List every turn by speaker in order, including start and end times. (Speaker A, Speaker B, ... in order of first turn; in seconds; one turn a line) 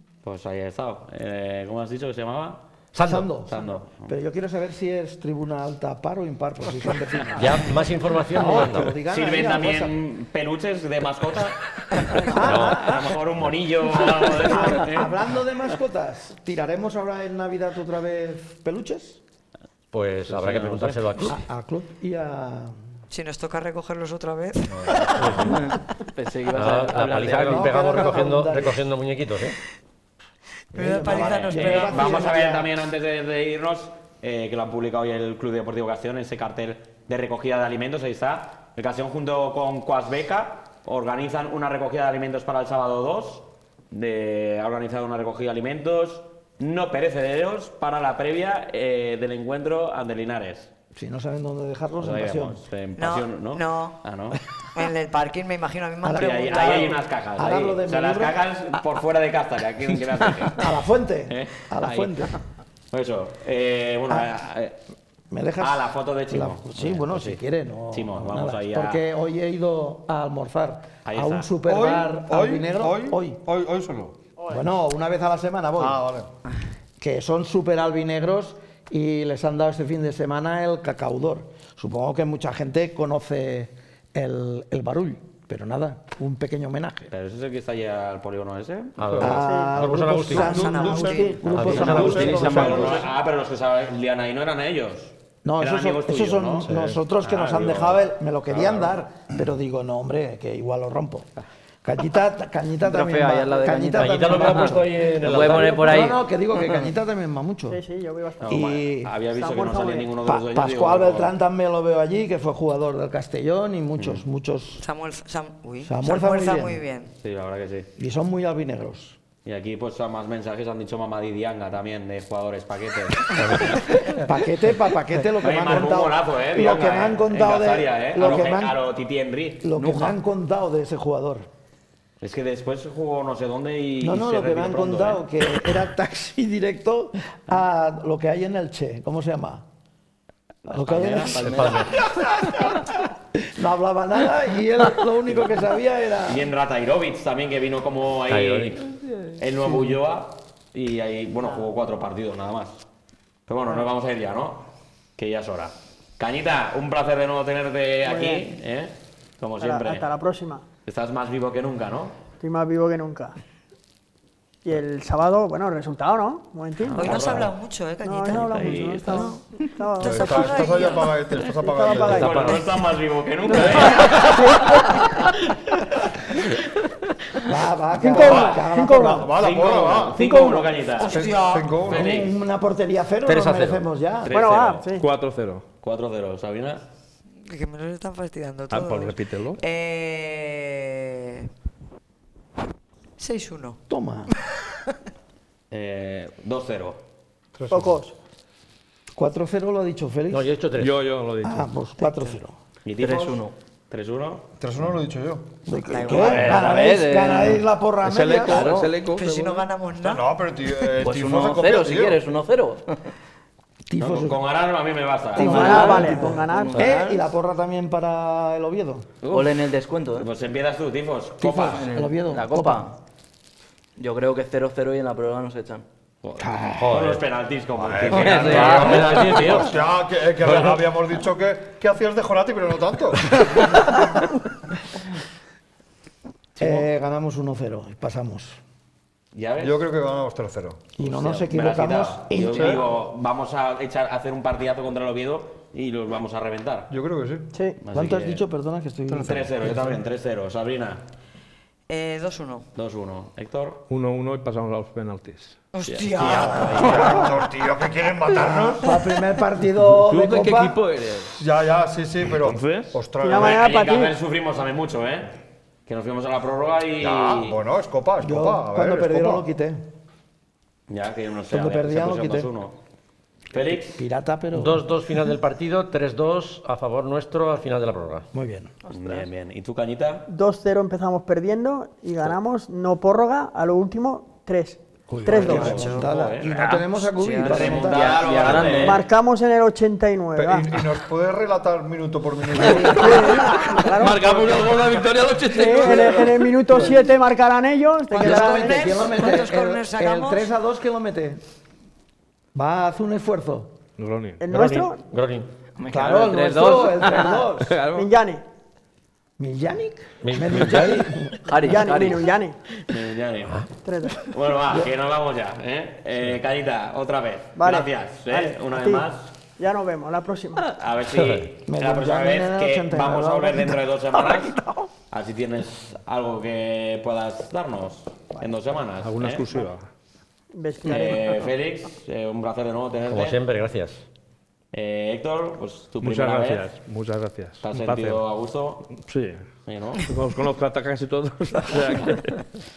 Speaker A: 0.2-2.6
Speaker B: 2.9-3.3
Speaker C: 3.0-7.7
Speaker A: 3.5-4.1
Speaker B: 7.4-8.9
Speaker C: 8.3-9.9
Speaker A: 9.1-15.2
Speaker B: 12.2-13.5
Speaker C: 12.2-13.1
Speaker C: 14.1-19.2
Speaker B: 19.9-21.4
Speaker A: 20.2-21.3
Speaker C: 21.2-22.8
Speaker D: 23.1-25.8
Speaker E: 24.7-25.1
Speaker B: 25.2-25.6
Speaker F: 25.4-28.1
Speaker B: 26.5-29.6
Speaker C: 27.4-28.8
Speaker D: 30.7-32.4
Speaker C: 30.7-32.7
Speaker A: 31.5-50.7
Speaker C: 50.9-52.6
Speaker A: 52.0-54.4
Speaker D: 53.0-54.0
Speaker D: 54.7-57.0
Speaker C: 56.0-58.4
Speaker A: 56.1-62.3
Speaker C: 60.5-62.3
Speaker A: 62.9-64.8
Speaker C: 65.3-73.4
Speaker A: 65.6-69.0
Speaker A: 71.0-71.5
Speaker E: 71.7-74.2
Speaker G: 74.4-74.7
Speaker C: 74.5-76.0
Speaker E: 75.8-76.3
Speaker C: 77.0-87.1
Speaker A: 87.1-89.3
Speaker B: 89.0-92.9
Speaker C: 89.2-93.0
Speaker G: 89.3-89.8
Speaker D: 90.2-92.3
Speaker G: 90.8-92.0
Speaker A: 91.4-99.0
Speaker F: 91.7-93.0
Speaker E: 91.9-92.9
Speaker C: 95.4-101.3
Speaker E: 96.6-97.0
Speaker C: 101.8-107.8
Speaker F: 102.8-106.8
Speaker B: 103.9-106.2
Speaker G: 107.7-110.2
Speaker A: 108.4-111.3
Speaker C: 108.5-109.1
Speaker C: 110.2-114.8
Speaker A: 114.0-114.2
Speaker D: 114.8-117.1
Speaker C: 115.8-116.8
Speaker A: 117.2-117.9
Speaker C: 118.0-119.2
Speaker A: 119.4-123.8
Speaker B: 123.3-124.0
Speaker C: 124.2-128.8
Speaker A: 125.4-129.7
Speaker C: 129.6-131.5
Speaker F: 129.8-130.2
Speaker A: 132.2-135.3
Speaker C: 134.0-139.6
Speaker A: 140.6-141.9
Speaker C: 140.7-142.8
Speaker F: 141.2-141.7
Speaker B: 141.4-142.0
Speaker C: 143.5-146.5
Speaker A: 146.2-152.8
Speaker B: 148.3-148.8
Speaker A: 153.5-160.1
Speaker G: 158.0-158.5
Speaker G: 159.6-160.6
Speaker A: 160.8-162.2
Speaker G: 162.4-163.4
Speaker G: 164.6-167.4
Speaker A: 166.8-167.5
Speaker D: 166.9-169.4
Speaker G: 168.0-172.6
Speaker A: 168.3-169.3
Speaker D: 170.0-171.2
Speaker E: 170.0-172.3
Speaker A: 171.9-175.3
Speaker B: 172.0-172.6
Speaker G: 173.6-175.2
Speaker D: 173.8-174.2
Speaker C: 177.4-179.3
Speaker G: 178.0-179.3
Speaker A: 178.1-178.7
Speaker E: 179.0-180.3
Speaker A: 179.3-182.3
Speaker G: 180.2-180.8
Speaker D: 181.0-182.0
Speaker E: 181.0-182.2
Speaker C: 181.9-184.3
Speaker B: 183.2-183.8
Speaker A: 184.2-184.9
Speaker G: 184.3-185.0
Speaker H: 184.9-185.6
Speaker A: 185.8-186.8
Speaker D: 187.4-191.5
Speaker H: 188.7-189.6
Speaker D: 193.2-193.8
Speaker C: 193.9-194.3
Speaker A: 195.7-197.0
Speaker E: 197.5-198.0
Speaker G: 197.7-198.1
Speaker C: 199.1-200.5
Speaker B: 200.3-201.0
Speaker H: 200.7-201.7
Speaker C: 201.4-202.6
Speaker A: 202.8-204.4
Speaker F: 203.0-203.5
Speaker E: 204.6-205.5
Speaker C: 205.7-208.7
Speaker D: 205.7-206.6
Speaker H: 206.2-206.8
Speaker F: 206.3-207.6
Speaker H: 208.0-209.7
Speaker F: 208.5-208.9
Speaker D: 209.0-211.0
Speaker E: 210.0-212.2
Speaker F: 211.0-213.1
Speaker C: 213.9-214.4
Speaker A: 214.0-216.1
Speaker F: 215.3-217.3
Speaker C: 215.3-219.1
Speaker G: 215.4-216.9
Speaker A: 219.2-219.6
Speaker F: 219.3-220.3
Speaker A: 220.2-221.9
Speaker C: 221.4-222.8
Speaker F: 221.6-222.9
Speaker F: 224.0-225.8
Speaker A: 226.2-229.7
Speaker B: 226.7-227.2
Speaker E: 227.8-234.2
Speaker F: 228.1-229.2
Speaker B: 228.1-229.8
Speaker B: 230.4-230.8
Speaker A: 236.6-236.8
Speaker C: 236.6-238.6
Speaker A: 239.3-239.8
Speaker E: 239.6-240.9
Speaker C: 241.0-242.8
Speaker A: 241.0-246.9
Speaker E: 242.4-242.8
Speaker E: 246.9-247.5
Speaker G: 247.5-247.8
Speaker A: 247.8-248.4
Speaker C: 247.9-249.5
Speaker E: 249.1-249.9
Speaker A: 249.2-251.0
Speaker D: 251.9-252.7
Speaker A: 252.8-253.8
Speaker H: 253.9-255.7
Speaker D: 255.7-257.3
Speaker A: 255.8-257.2
Speaker E: 256.7-259.0
Speaker C: 258.4-260.8
Speaker H: 259.8-261.5
Speaker E: 261.4-263.7
Speaker H: 262.3-263.0
Speaker G: 263.2-264.2
Speaker A: 263.3-265.3
Speaker A: 265.9-267.6
Speaker E: 267.0-269.4
Speaker C: 268.2-269.8
Speaker A: 270.9-272.8
Speaker C: 271.5-272.5
Speaker A: 273.5-274.0
Speaker C: 273.9-274.9
Speaker B: 274.5-278.3
Speaker C: 278.3-278.7
Speaker A: 278.9-280.3
Speaker G: 278.9-279.2
Speaker G: 280.3-286.0
Speaker C: 285.1-288.1
Speaker A: 285.3-289.1
Speaker D: 285.7-285.9
Speaker D: 287.1-288.7
Speaker F: 287.7-289.1
Speaker G: 288.7-290.7
Speaker E: 290.3-293.4
Speaker C: 292.6-293.4
Speaker G: 292.7-298.8
Speaker H: 293.1-296.4
Speaker C: 298.1-301.4
Speaker D: 298.1-300.5
Speaker C: 302.5-303.7
Speaker H: 304.0-304.4
Speaker G: 304.4-305.0
Speaker B: 304.5-305.5
Speaker F: 305.8-307.4
Speaker C: 305.9-307.7
Speaker H: 307.6-308.1
Speaker G: 307.9-308.4
Speaker C: 309.4-311.4
Speaker B: 310.2-311.3
Speaker F: 311.4-312.3
Speaker G: 311.6-312.6
Speaker A: 312.9-313.6
Speaker G: 313.8-314.2
Speaker A: 314.2-319.3
Speaker G: 317.6-319.1
Speaker G: 319.6-320.7
Speaker A: 320.6-329.5
Speaker B: 321.1-321.4
Speaker C: 321.6-324.3
Speaker H: 329.0-329.9
Speaker G: 330.5-331.5
Speaker A: 330.8-333.4
Speaker B: 333.1-334.1
Speaker A: 334.7-336.7
Speaker H: 336.0-338.2
Speaker A: 337.6-338.9
Speaker H: 338.9-339.5
Speaker A: 339.6-340.0
Speaker H: 340.0-342.5